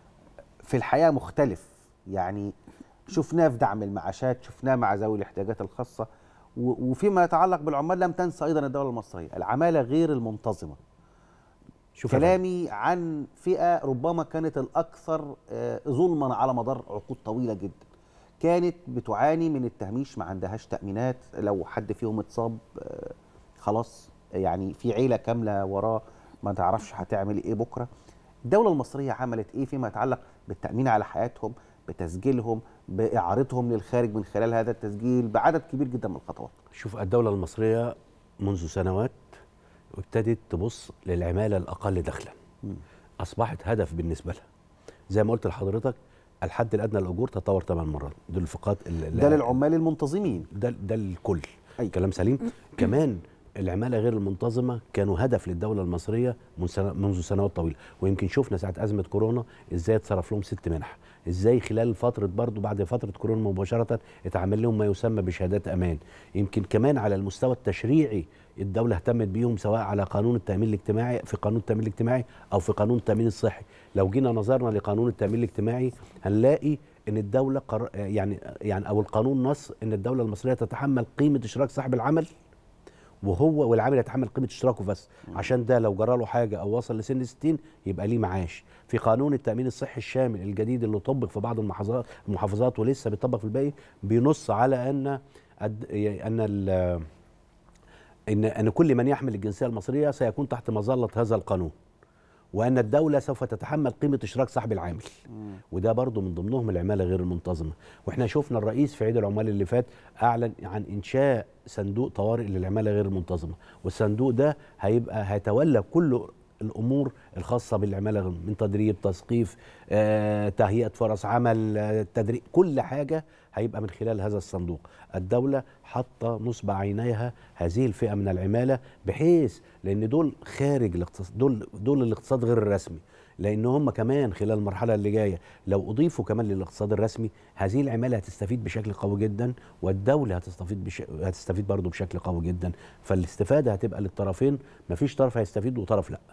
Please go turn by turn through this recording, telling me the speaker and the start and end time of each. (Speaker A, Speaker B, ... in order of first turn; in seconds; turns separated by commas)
Speaker A: 0.6-2.5, Speaker A: 3.1-10.8, Speaker B: 12.0-12.4, Speaker A: 12.1-27.9, Speaker A: 28.5-36.5, Speaker B: 36.7-39.2, Speaker B: 40.0-42.4, Speaker B: 43.2-44.4, Speaker B: 45.1-49.6, Speaker A: 49.1-50.5, Speaker B: 50.5-82.3, Speaker B: 83.2-97.0, Speaker B: 98.3-101.7, Speaker B: 102.5-105.1, Speaker B: 105.7-146.2